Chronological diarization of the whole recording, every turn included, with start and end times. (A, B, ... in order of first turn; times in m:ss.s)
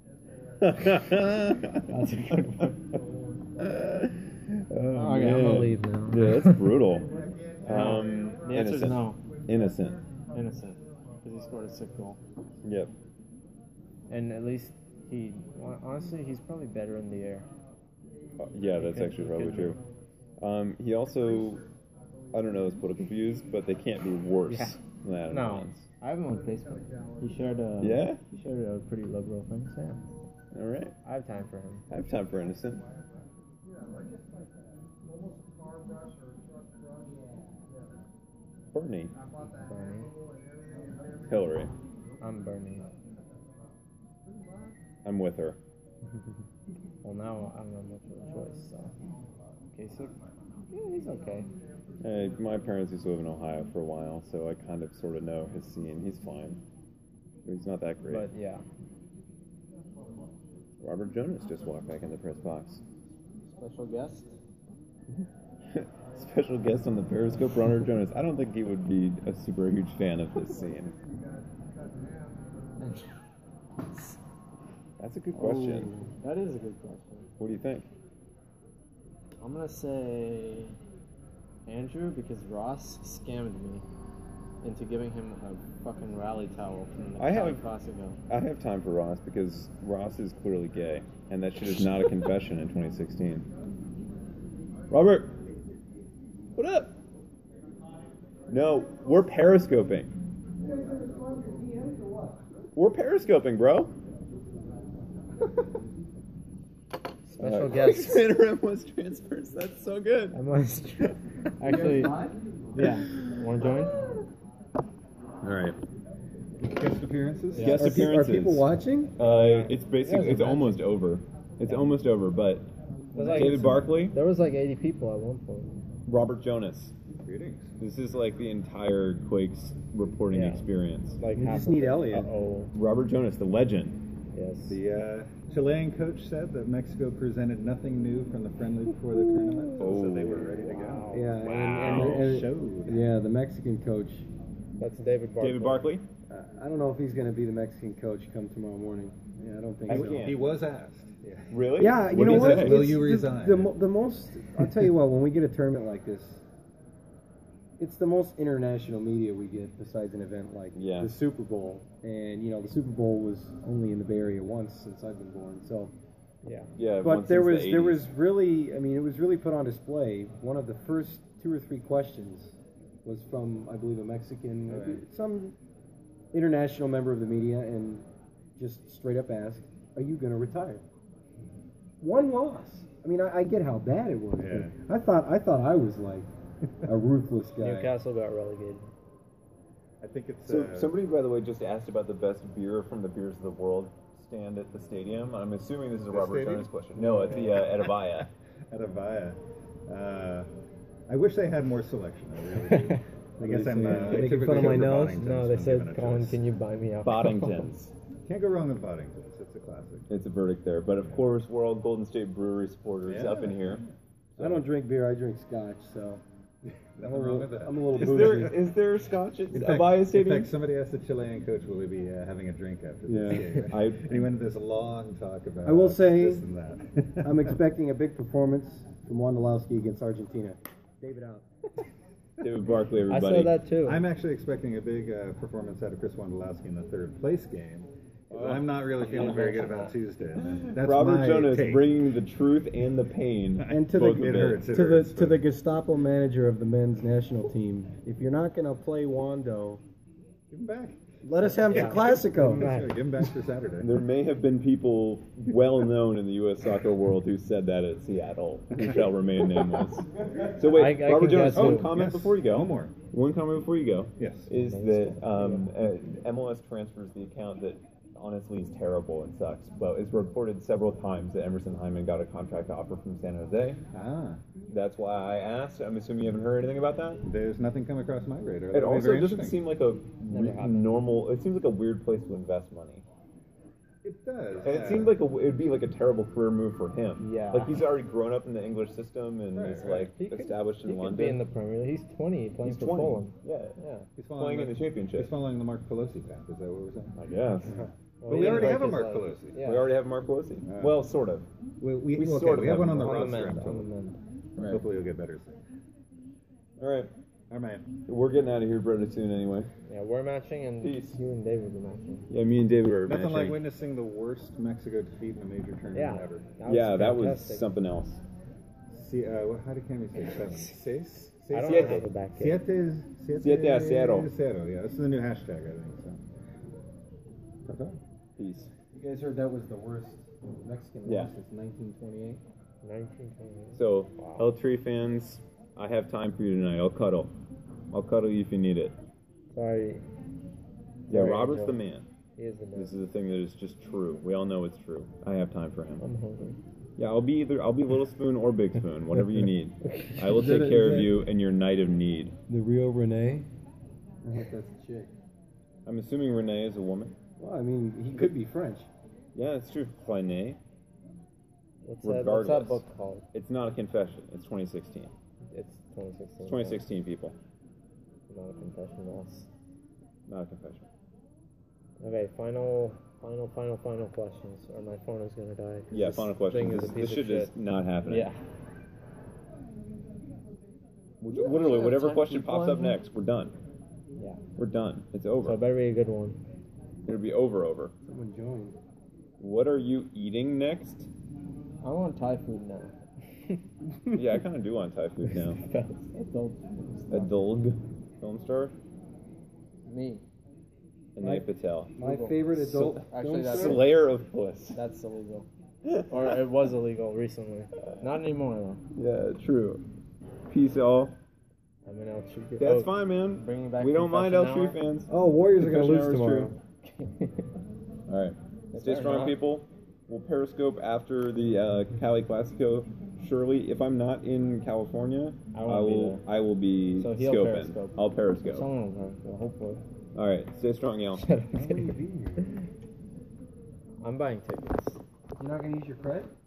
0:00.6-0:02.6 A
0:01.9-0:02.7 B
0:03.6-0:07.1 A
0:04.9-0:06.7 B
0:07.6-0:10.0 A
0:07.7-0:09.2 B
0:10.3-0:12.2 B
0:12.6-0:12.9 A
0:14.1-0:17.5 B
0:18.4-0:19.8 A
0:18.8-0:19.8 B
0:20.4-0:21.6 A
0:22.3-0:25.8 A
0:24.5-0:24.8 B
0:25.3-0:30.0 B
0:27.8-0:28.2 A
0:30.5-0:30.9 A
0:31.0-0:31.8 B
0:31.9-0:32.8 A
0:38.7-0:39.1 A
0:39.6-0:40.1 B
0:41.3-0:41.7 A
0:42.2-0:42.8 B
0:45.0-0:45.6 A
0:47.0-0:48.9 B
0:49.7-0:50.2 B
0:50.7-0:51.5 B
0:52.0-0:56.6 A
0:57.4-0:58.3 A
0:58.1-0:58.6 B
1:00.8-1:02.8 A
1:03.5-1:04.3 B
1:05.1-1:10.9 A
1:12.8-1:13.1 B
1:15.0-1:15.9 A
1:15.3-1:17.3 B
1:17.4-1:17.9 A
1:19.4-1:20.8 B
1:21.7-1:23.8 B
1:24.6-1:28.2 B
1:27.2-1:27.6 A
1:28.3-1:33.5 A
1:34.9-1:35.3 A
1:36.6-1:36.9 A
1:38.5-1:40.1 A
1:42.7-1:43.9 A
1:47.3-1:48.3 B
1:47.4-1:50.4 A
1:50.3-1:52.2 B
1:51.7-1:52.3 C
1:52.8-1:54.0 B
1:52.8-1:54.1 A
1:55.4-1:55.8 A
1:56.6-1:58.1 D
1:57.5-1:57.9 B
1:57.6-2:02.7 A
1:57.6-1:59.1 C
1:59.2-2:00.3 B
2:00.0-2:00.8 C
2:03.1-2:05.7 B
2:03.2-2:03.8 C
2:03.3-2:04.2 A
2:06.0-2:07.0 A
2:07.2-2:07.7 D
2:07.8-2:11.2 A
2:10.3-2:10.6 B
2:11.2-2:12.7 B
2:11.3-2:12.3 C
2:12.7-2:14.0 A
2:14.3-2:14.8 B
2:14.6-2:23.0 D
2:19.8-2:20.7 A
2:20.8-2:21.4 B
2:21.1-2:24.3 C
2:21.4-2:22.4 A
2:24.8-2:25.9 B
2:25.4-2:26.0 A
2:26.3-2:30.3 C
2:29.9-2:33.7 D
2:29.9-2:30.5 A
2:31.5-2:32.9 A
2:31.7-2:36.4 C
2:37.8-2:45.9 C
2:40.7-2:41.1 A
2:46.4-2:46.7 B
2:46.8-2:48.1 A
2:47.0-2:55.6 C
2:56.3-3:00.8 C
3:02.0-3:06.3 C
3:04.4-3:04.7 D
3:06.8-3:07.9 C
3:07.6-3:08.9 B
3:10.0-3:10.9 D
3:10.5-3:18.3 A
3:16.1-3:18.0 D
3:17.0-3:17.5 B
3:18.7-3:20.5 D
3:21.1-3:26.4 D
3:22.7-3:23.0 B
3:23.4-3:25.2 C
3:23.8-3:27.7 B
3:23.8-3:24.3 A
3:27.0-3:27.9 A
3:28.2-3:30.0 D
3:30.1-3:33.8 A
3:33.0-3:33.8 D
3:34.4-3:36.2 C
3:37.0-3:38.5 D
3:37.0-3:38.6 C
3:37.9-3:40.5 A
3:39.5-3:47.6 D
3:43.1-3:43.6 C
3:43.7-3:44.1 A
3:45.6-3:46.4 C
3:47.2-3:51.4 C
3:52.4-3:53.5 A
3:53.1-3:54.0 B
3:53.8-4:02.0 D
3:58.3-3:59.9 B
4:00.4-4:04.7 A
4:03.6-4:05.4 D
4:03.7-4:09.8 C
4:10.5-4:14.0 D
4:11.2-4:12.8 C
4:11.7-4:13.0 B
4:13.8-4:33.8 A
4:18.8-4:19.1 D
4:20.7-4:21.9 B
4:21.5-4:22.9 D
4:24.2-4:24.5 D
4:24.5-4:25.6 B
4:33.9-4:34.4 D
4:34.7-4:37.2 A
4:37.2-4:39.6 D
4:38.7-4:43.0 A
4:40.3-4:40.9 B
4:44.0-4:45.2 D
4:44.6-4:51.4 A
4:47.2-4:47.8 B
4:49.5-4:50.1 D
4:49.8-4:54.1 B
4:52.6-4:53.8 A
4:54.2-4:59.6 D
4:54.3-4:55.3 A
4:57.1-4:57.7 A
4:57.7-4:59.9 B
4:58.3-4:58.9 A
4:59.6-5:01.5 A
5:00.6-5:01.0 D
5:01.8-5:03.9 D
5:02.2-5:03.6 A
5:02.9-5:04.2 B
5:04.6-5:05.6 D
5:06.8-5:07.1 A
5:07.5-5:07.9 D
5:08.1-5:09.7 A
5:09.9-5:12.3 B
5:10.8-5:11.2 A
5:12.3-5:13.6 A
5:13.0-5:16.5 D
5:15.9-5:17.6 B
5:16.6-5:18.2 A
5:18.9-5:26.2 D
5:20.1-5:20.8 B
5:21.5-5:22.6 B
5:21.6-5:22.1 A
5:23.4-5:24.3 A
5:27.6-5:28.0 D
5:28.4-5:28.7 A
5:28.9-5:32.4 C
5:31.0-5:31.3 A
5:32.8-5:34.4 B
5:33.7-5:37.3 A
5:37.9-5:38.9 A
5:39.5-5:40.0 B
5:41.1-5:41.8 B
5:41.1-5:42.1 A
5:42.4-5:43.0 B
5:42.7-5:46.0 A
5:46.0-5:46.6 B
5:47.0-5:52.4 A
5:49.8-5:50.5 B
5:50.2-5:51.2 C
5:52.5-5:53.5 C
5:54.2-5:55.1 C
5:55.8-5:57.2 A
5:57.4-5:58.9 C
5:59.3-6:00.6 A
6:01.8-6:03.2 B
6:02.0-6:05.1 A
6:05.5-6:06.8 B
6:06.4-6:07.4 A
6:08.3-6:09.5 B
6:10.3-6:10.9 A
6:12.0-6:17.5 B
6:15.9-6:18.3 A
6:18.1-6:18.4 B
6:21.2-6:23.6 A
6:21.3-6:23.0 B
6:24.6-6:25.6 A
6:25.4-6:26.4 B
6:27.0-6:27.9 A
6:28.0-6:28.8 C
6:29.4-6:31.1 A
6:31.8-6:32.9 B
6:33.5-6:34.3 B
6:34.1-6:35.6 A
6:35.2-6:37.0 B
6:37.1-6:38.7 A
6:39.9-6:40.2 B
6:41.2-6:41.9 A
6:41.2-6:43.9 C
6:42.0-6:42.5 B
6:42.5-6:44.8 A
6:43.1-6:43.9 B
6:44.7-6:45.5 B
6:45.8-6:46.4 A
6:46.1-6:48.8 B
6:48.9-6:49.8 A
6:50.5-6:51.1 A
6:51.8-6:54.8 B
6:52.6-6:56.5 A
6:55.1-6:56.5 C
6:55.6-6:57.4 B
6:58.1-7:08.7 A
6:58.7-6:59.4 B
7:05.5-7:06.2 B
7:07.0-7:08.0 B
7:08.5-7:09.8 B
7:10.2-7:11.2 A
7:11.2-7:12.4 B
7:11.6-7:12.4 C
7:14.0-7:15.0 B
7:15.4-7:16.3 C